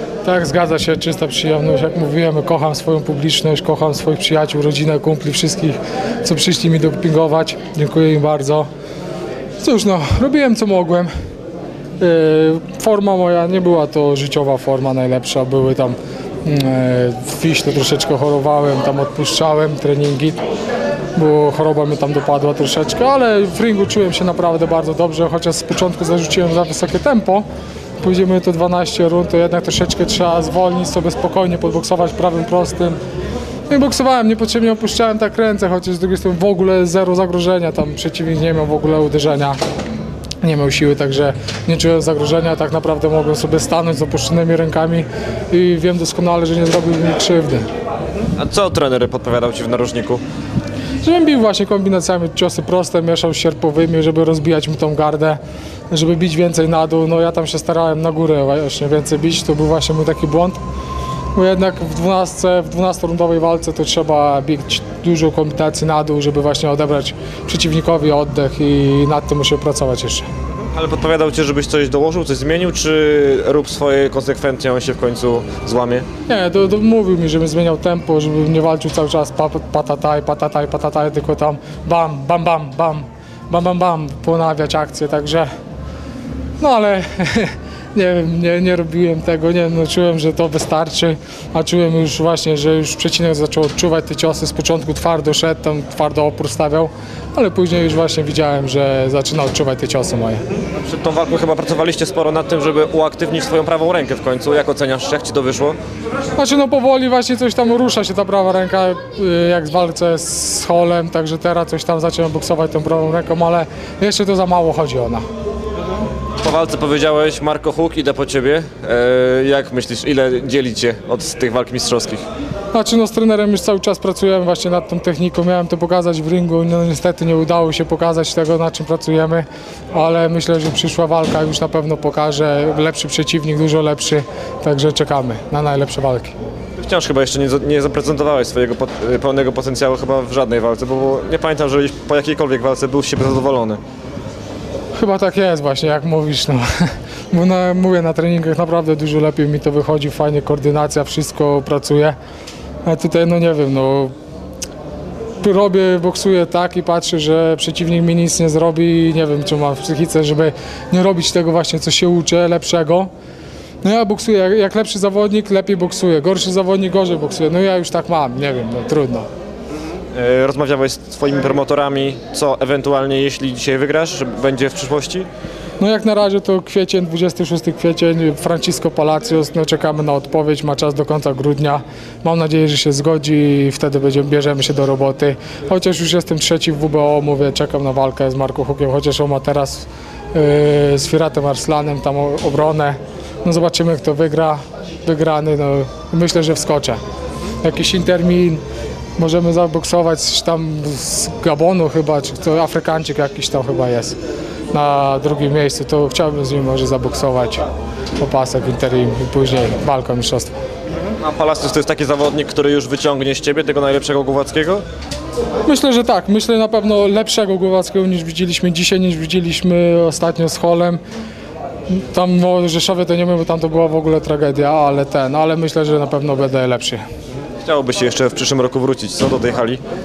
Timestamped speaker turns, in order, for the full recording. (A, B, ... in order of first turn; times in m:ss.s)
0:00.2-0:08.7 A
0:09.6-0:11.1 A
0:12.0-0:20.4 A
0:21.1-0:27.4 A
0:28.0-0:33.0 A
0:33.7-0:39.6 A
0:40.4-0:47.7 A
0:48.4-0:50.2 B
0:51.0-0:55.4 A
0:55.9-1:00.6 A
1:01.3-1:10.2 A
1:10.7-1:16.0 B
1:16.3-1:25.5 A
1:26.6-1:40.4 A
1:40.8-1:45.8 B
1:46.4-1:55.2 A
1:56.4-2:02.2 B
2:02.7-2:16.4 A
2:16.8-2:23.8 B
2:25.0-2:32.2 A
2:32.8-2:34.1 A
2:35.4-2:43.1 A
2:43.8-2:49.3 A
2:50.1-2:55.3 B
2:55.8-3:17.0 A
3:17.6-3:18.6 A
3:19.2-3:24.2 A
3:24.7-3:27.6 A
3:28.2-3:30.6 A
3:31.2-3:34.8 B
3:35.7-3:41.0 A
3:41.9-3:47.0 A
3:47.6-3:49.8 B